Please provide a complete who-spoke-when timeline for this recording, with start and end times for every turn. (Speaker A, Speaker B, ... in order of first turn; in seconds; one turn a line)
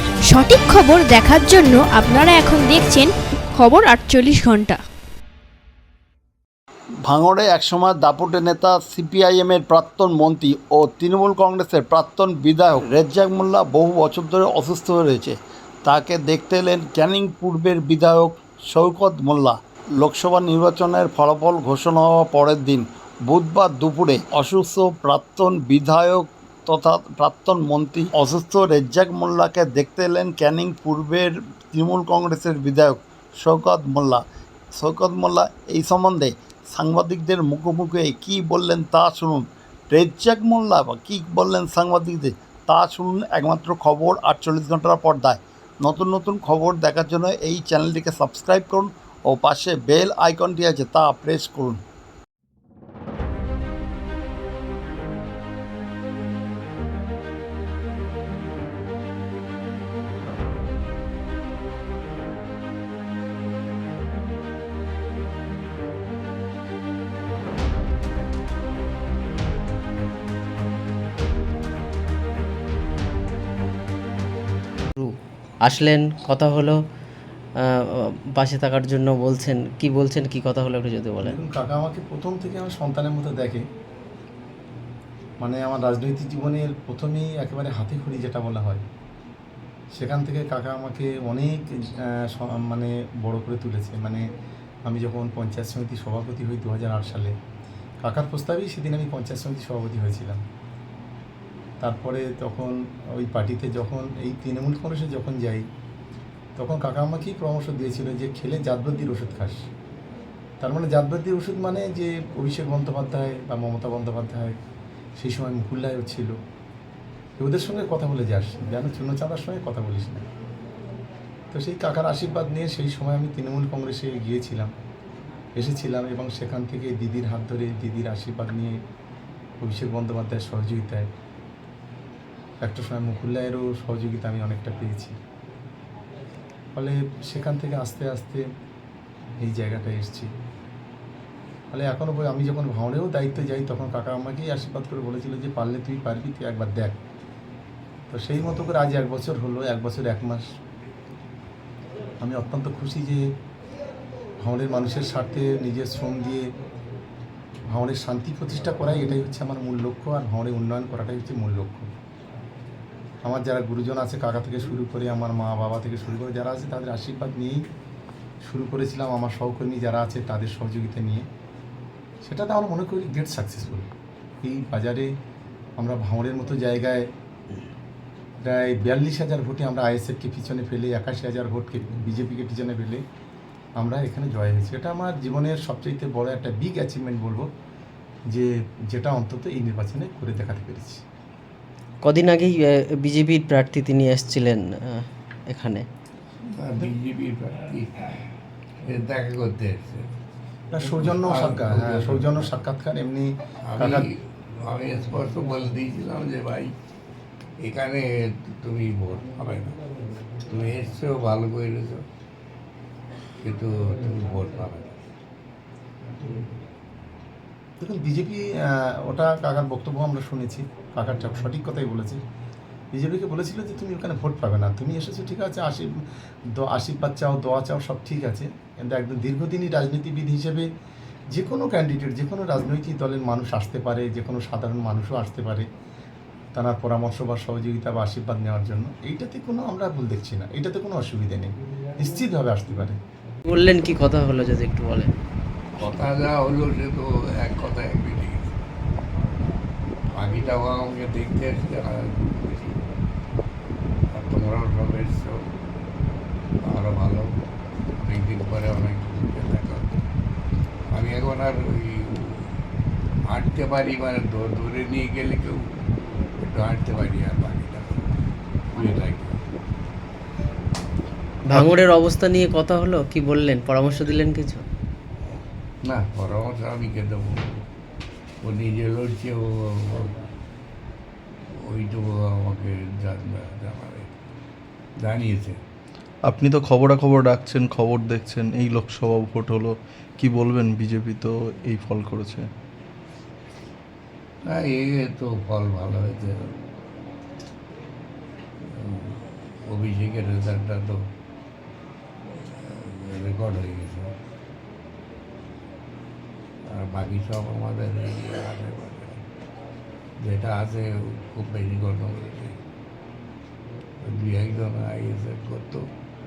Speaker A: 0.3-3.1
Speaker A: 3.6-4.7
Speaker B: 7.1-34.2
Speaker B: 34.8-51.8
Speaker C: 75.6-76.8
Speaker C: 77.6-81.3
Speaker D: 81.2-83.6
Speaker D: 85.4-88.8
Speaker D: 90.0-94.2
Speaker D: 94.9-97.3
Speaker D: 98.0-100.4
Speaker D: 101.8-105.6
Speaker D: 106.5-109.6
Speaker D: 110.6-114.5
Speaker D: 115.2-116.3
Speaker D: 117.4-120.3
Speaker D: 121.5-124.7
Speaker D: 125.6-128.7
Speaker D: 129.6-131.1
Speaker D: 132.6-135.1
Speaker D: 136.7-138.4
Speaker D: 139.4-140.3
Speaker D: 141.7-147.0
Speaker D: 148.1-150.4
Speaker D: 152.2-153.2
Speaker D: 154.4-156.4
Speaker D: 157.7-161.9
Speaker D: 163.2-167.6
Speaker D: 168.4-171.2
Speaker D: 172.2-173.9
Speaker D: 174.4-175.1
Speaker D: 175.8-177.1
Speaker D: 178.4-183.0
Speaker D: 183.8-187.5
Speaker D: 188.3-191.0
Speaker C: 192.0-195.8
Speaker E: 196.5-198.3
Speaker E: 198.8-200.1
Speaker D: 200.7-204.1
Speaker E: 201.0-202.5
Speaker E: 203.7-206.7
Speaker E: 207.6-209.8
Speaker E: 210.4-212.0
Speaker E: 213.4-215.1
Speaker D: 217.8-222.2
Speaker D: 222.9-225.9
Speaker D: 226.6-230.6
Speaker D: 231.3-235.7
Speaker D: 236.5-242.9
Speaker C: 243.5-245.1
Speaker E: 245.8-248.6
Speaker E: 250.2-252.8
Speaker E: 254.1-255.4
Speaker E: 256.6-257.3
Speaker E: 258.0-260.0
Speaker E: 260.9-262.5
Speaker E: 263.3-265.6
Speaker E: 266.4-268.1
Speaker E: 268.7-269.4
Speaker C: 271.5-274.6
Speaker E: 275.9-277.6
Speaker E: 278.4-280.1
Speaker E: 281.7-284.1
Speaker E: 285.0-285.6
Speaker F: 286.2-292.5
Speaker E: 294.5-296.4
Speaker E: 298.7-301.0
Speaker E: 302.3-304.1
Speaker E: 306.7-309.2
Speaker E: 310.2-312.6
Speaker E: 314.0-315.8